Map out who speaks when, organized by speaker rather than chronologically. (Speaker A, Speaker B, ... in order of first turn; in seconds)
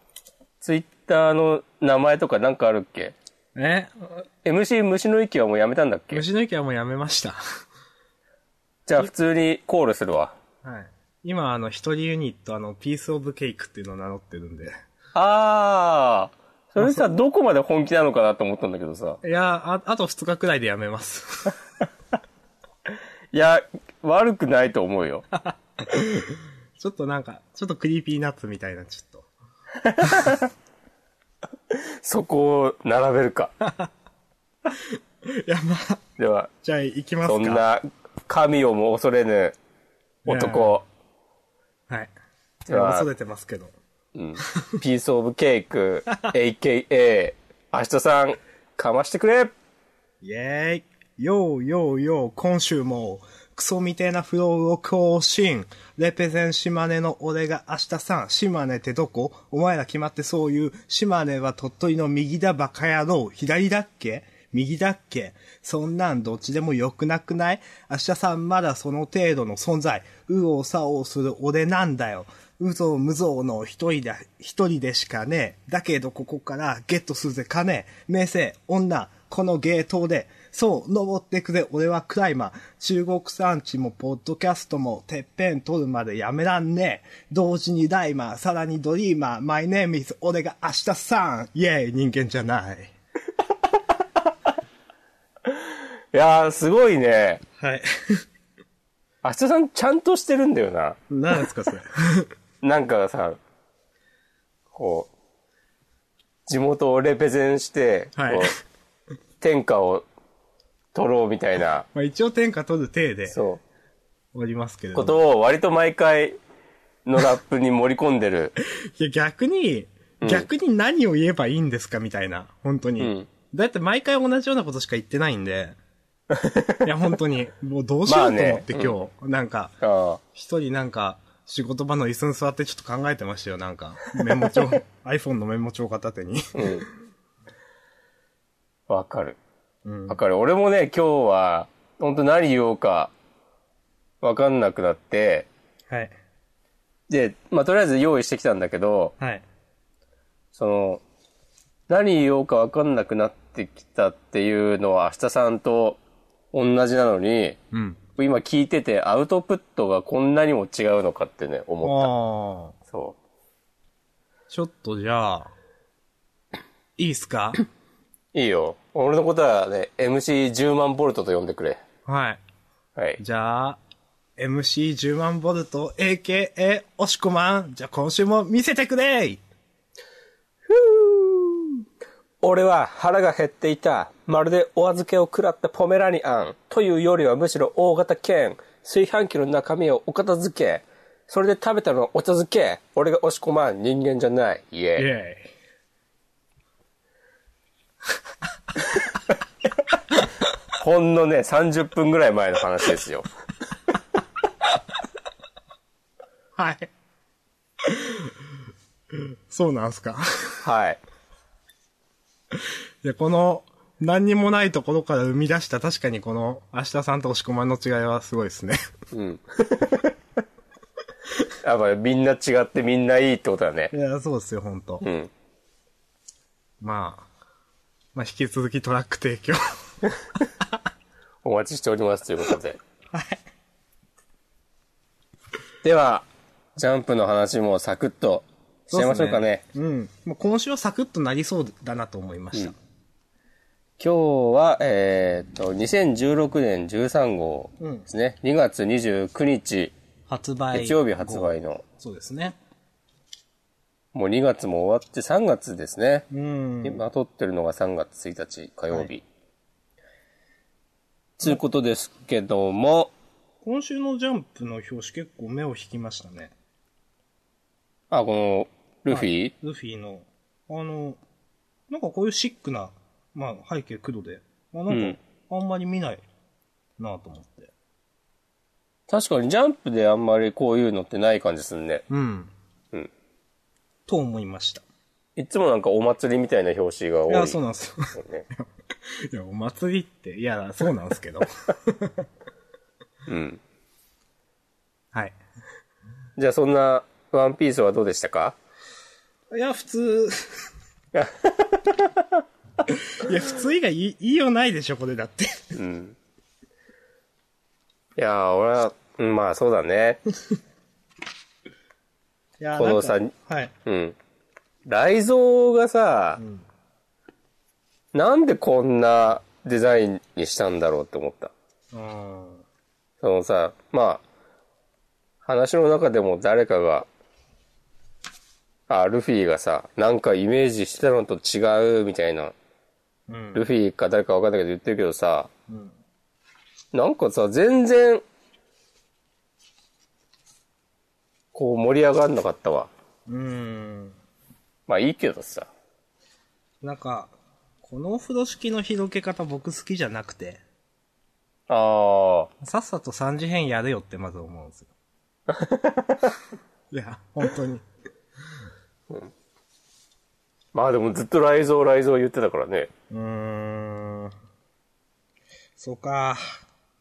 Speaker A: 0.6-3.1, 4.4-6.2, 8.8-10.3, 15.1-19.2, 23.3-25.2, 29.8-30.5, 31.7-33.5, 36.2-36.5, 37.3-39.5, 40.3-40.9, 42.7-43.1, 44.1-49.5, 95.5-97.4, 99.2-101.0, 102.6-103.4, 104.7-105.1, 106.5-108.5, 109.4-110.0, 110.9-111.9, 113.3-113.6, 114.9-116.4, 117.0-118.5, 120.2-120.5, 123.0-123.3, 126.3-126.9, 128.1-128.9, 129.8-130.2, 136.5-136.8, 138.9-139.4, 140.1-143.1, 144.2-145.5, 147.1-149.2, 150.5-151.0, 151.9-156.0, 156.5-157.6, 158.2-162.1, 162.9-163.2, 168.3-171.8, 180.7-181.7, 182.4-195.1, 200.7-203.3, 210.6-211.0, 219.1-220.1, 221.6-223.9, 225.0-225.3, 231.4-232.8, 235.8-239.6, 244.0-249.9, 250.7-251.8, 254.1-256.2, 256.8-259.2, 261.4-263.1, 268.1-269.5, 274.9-275.2, 279.1-282.0, 285.4-287.6, 288.1-288.4, 293.3-293.6, 296.4-298.6, 301.1-302.4, 305.7-306.1, 308.2-310.2, 312.8-313.3, 313.9-314.1, 314.9-316.4, 318.1-321.5, 323.2-324.2, 325.4-327.1, 328.9-332.5, 333.5-335.5, 336.9-338.2, 341.5-342.9, 344.9-345.7, 351.7-352.5, 355.5-356.3, 360.7-362.9
Speaker B: 3.5-4.2, 6.1-7.4, 10.6-14.7, 16.8-17.1, 19.2-21.6, 25.4-29.3, 30.0-30.4, 33.6-33.9, 34.7-36.0, 36.6-37.6, 40.2-40.8, 42.7-43.8, 50.2-92.9, 97.6-98.2, 101.1-102.3, 108.2-108.5, 111.9-113.4, 114.3-115.2, 118.8-125.8, 126.8-129.8, 130.3-136.9, 139.8-140.2, 145.9-146.2, 149.2-149.4, 157.7-158.0, 161.8-162.8, 164.5-165.5, 167.0-167.6, 172.0-172.4, 173.2-173.8, 174.4-179.4, 195.0-195.5, 206.6-206.9, 207.8-208.4, 209.1-210.6, 212.5-218.8, 223.9-225.0, 226.8-227.3, 228.1-229.7, 233.1-233.4, 238.9-242.8, 247.8-248.1, 250.3-252.6, 256.3-257.0, 263.6-266.5, 269.1-271.2, 271.9-276.2, 277.0-277.7, 282.1-282.5, 284.1-284.8, 287.3-292.2, 295.1-295.4, 299.5-300.7, 302.9-305.7, 312.6-313.7, 316.4-316.6, 321.9-322.6, 333.3-333.6, 335.7-336.0, 343.3-344.2, 346.8-350.6, 352.6-354.9, 356.9-357.8, 363.1-364.3, 365.8-366.4